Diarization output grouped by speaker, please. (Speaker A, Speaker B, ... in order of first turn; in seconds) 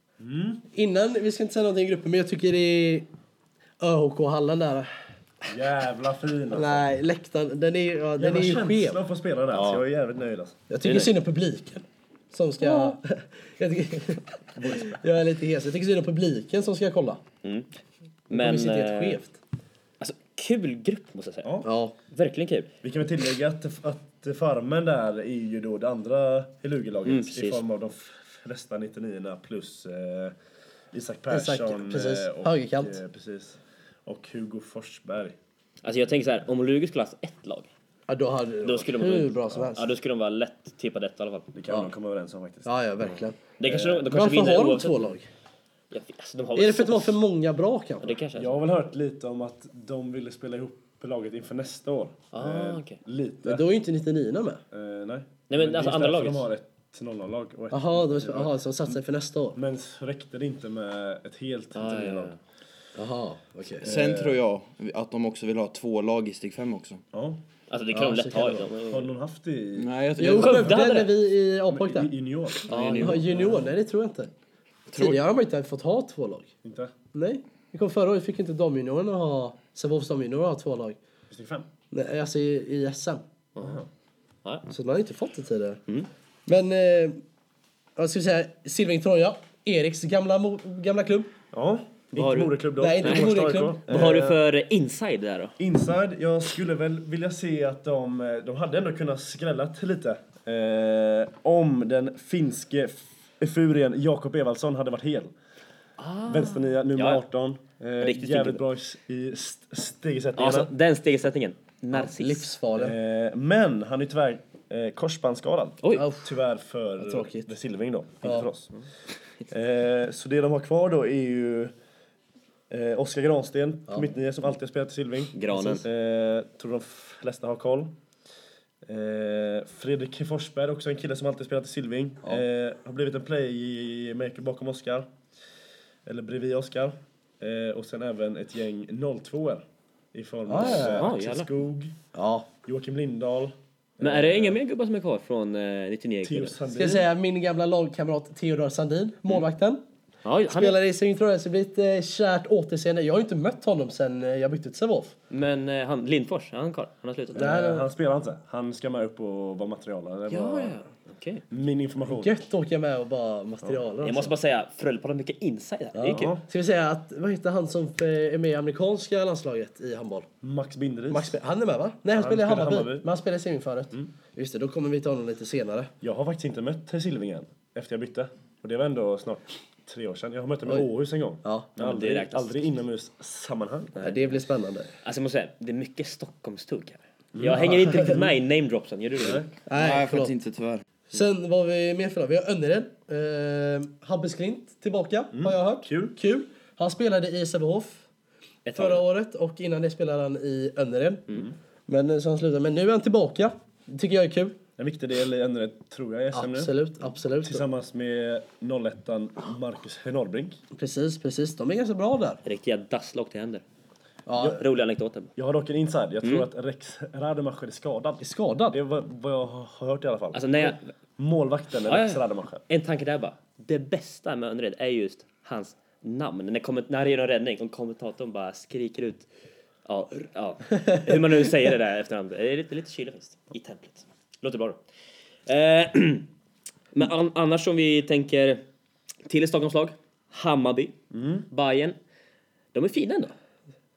Speaker A: 0.2-0.6, 5.4-6.8, 8.2-10.6, 14.6-15.0, 21.4-21.7, 22.8-30.3, 30.9-35.4, 41.5-42.7, 43.6-44.1, 48.3-53.6, 54.7-58.9, 59.5-62.3, 63.8-64.4, 67.1-67.4, 68.8-69.9, 71.7-73.6, 76.6-76.9, 81.3-81.7, 83.6-83.9, 91.5-94.4, 95.6-105.3, 106.3-110.7, 112.7-118.7, 119.5-121.7, 122.7-127.9, 128.8-135.1, 136.1-142.0, 142.6-144.6, 146.2-147.1, 157.3-160.7, 161.5-162.3, 166.1-166.4, 170.4-171.4, 172.1-173.1, 176.0-184.2, 187.3-188.3, 189.2-189.5, 195.3-196.2, 204.8-206.7, 207.4-210.6, 215.3-222.6, 241.1-241.4
Speaker B: 0.7-3.1, 3.8-4.9, 6.5-9.0, 10.7-17.2, 18.3-19.4, 21.6-21.9, 31.3-33.0, 38.1-39.9, 42.6-43.4, 44.1-45.2, 46.5-48.2, 53.4-54.6, 57.7-59.6, 63.0-63.9, 67.9-68.7, 70.2-72.1, 72.8-74.3, 74.9-76.5, 77.1-81.0, 81.9-83.2, 84.7-85.8, 86.5-87.2, 88.0-91.3, 92.8-93.8, 111.9-113.0, 115.9-116.3, 117.0-117.5, 118.2-118.5, 140.5-141.1, 142.1-142.5, 146.7-149.8, 150.5-155.1, 157.3-157.9, 162.1-164.3, 165.9-170.3, 171.1-175.9, 181.4-181.7, 184.0-184.9, 189.7-190.3, 191.1-198.0, 198.7-204.6, 206.3-207.6, 210.7-212.4, 214.3-214.6, 218.2-218.8
Speaker C: 9.5-9.8, 10.8-11.1, 12.6-12.9, 17.4-17.7, 18.3-19.2, 20.0-21.5, 22.1-22.7, 27.1-27.6, 35.8-37.7, 38.6-41.5, 43.6-45.1, 45.9-47.2, 48.0-48.6, 52.3-53.0, 55.5-56.5, 61.7-62.4, 67.7-69.0, 70.3-71.1, 72.7-73.4, 83.5-83.8, 92.1-93.3, 93.9-95.6, 106.0-107.2, 108.0-108.6, 110.4-112.5, 125.3-125.8, 140.8-141.5, 144.0-146.6, 150.2-150.8, 155.3-157.6, 160.3-161.4, 164.0-166.3, 181.8-182.7, 185.0-189.4, 198.7-199.0, 212.4-213.6, 214.4-215.3, 220.3-220.8, 221.8-229.3, 229.8-234.8, 235.5-236.3, 236.9-238.6, 239.2-240.9, 241.5-242.0, 242.7-243.3
Speaker D: 63.8-67.0, 69.8-70.8, 189.7-190.8